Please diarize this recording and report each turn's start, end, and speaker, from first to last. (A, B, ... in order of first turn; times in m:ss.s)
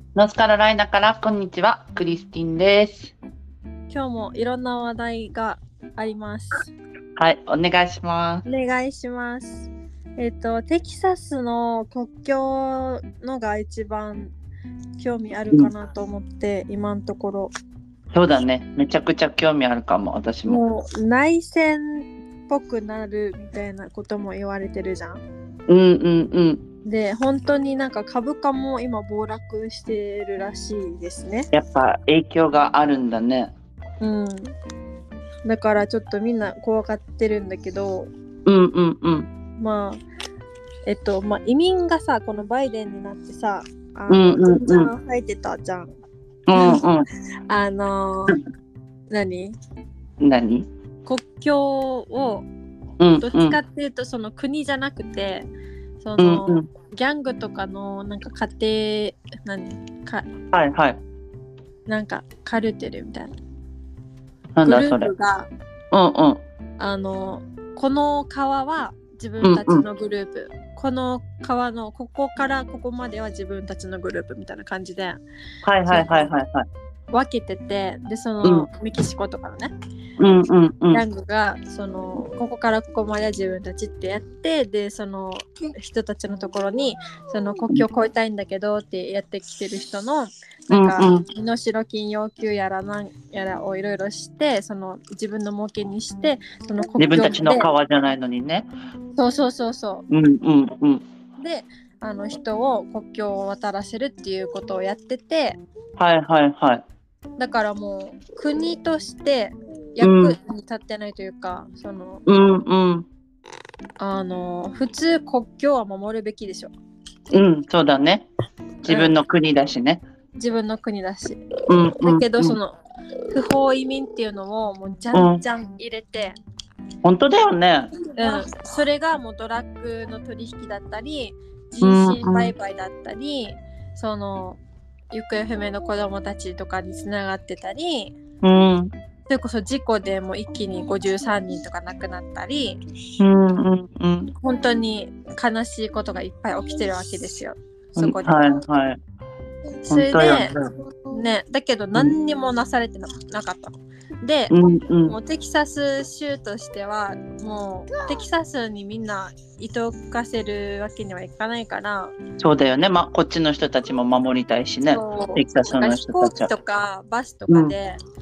0:00.2-0:03.1 A
0:03.9-0:06.7 B
0:07.2-0:08.4 A
0:08.4-0:14.3 B
0:15.0-0:17.5 B
0:18.1-0:20.6 A
0:20.4-0:25.2 B
0:25.7-0:26.6 A
0:26.8-0:31.5 B
0:31.5-0:33.5 A
0:34.0-0:34.5 B
0:35.4-0:38.1 B
0:38.4-0:39.3 A
0:39.6-0:40.0 B
0:40.8-0:45.9 B
0:44.1-0:44.9 A
0:46.5-0:47.0 A
0:46.5-0:46.8 B
0:47.5-0:48.4 B
0:49.1-0:49.5 B
0:50.2-0:50.7 A
0:51.0-0:52.4 B
0:53.0-0:53.6 A
0:53.2-0:55.5 B
0:56.0-1:00.2 B
0:56.2-0:56.7 A
1:00.5-1:01.0 A
1:01.9-1:03.3 B
1:04.6-1:05.1 A
1:04.6-1:05.5 B
1:05.9-1:06.4 A
1:06.8-1:15.2 B
1:09.4-1:09.8 A
1:15.6-1:16.6 A
1:15.9-1:16.3 B
1:17.1-1:19.7 B
1:20.2-1:21.0 A
1:20.9-1:37.7 B
1:30.7-1:31.2 A
1:37.0-1:38.7 A
1:39.2-1:40.0 B
1:40.1-1:41.0 A
1:41.4-1:45.6 B
1:46.0-1:46.8 A
1:47.4-1:52.2 B
1:50.0-1:50.3 A
1:52.2-1:53.1 A
1:54.0-1:56.7 B
1:57.3-1:58.3 A
1:58.8-2:00.0 A
1:58.8-1:59.1 B
2:00.4-2:01.4 B
2:01.7-2:02.6 A
2:02.0-2:02.7 B
2:03.3-2:06.4 B
2:05.1-2:05.4 A
2:07.0-2:07.9 A
2:08.1-2:14.6 B
2:11.8-2:12.5 A
2:15.1-2:18.2 B
2:18.4-2:18.9 A
2:19.3-2:22.8 B
2:23.2-2:24.3 A
2:24.4-2:28.6 B
2:28.0-2:29.0 A
2:29.9-2:30.5 B
2:29.9-2:30.7 A
2:31.1-2:34.5 B
2:34.5-2:35.2 A
2:35.1-2:42.1 B
2:42.4-2:46.5 A
2:44.9-2:48.0 B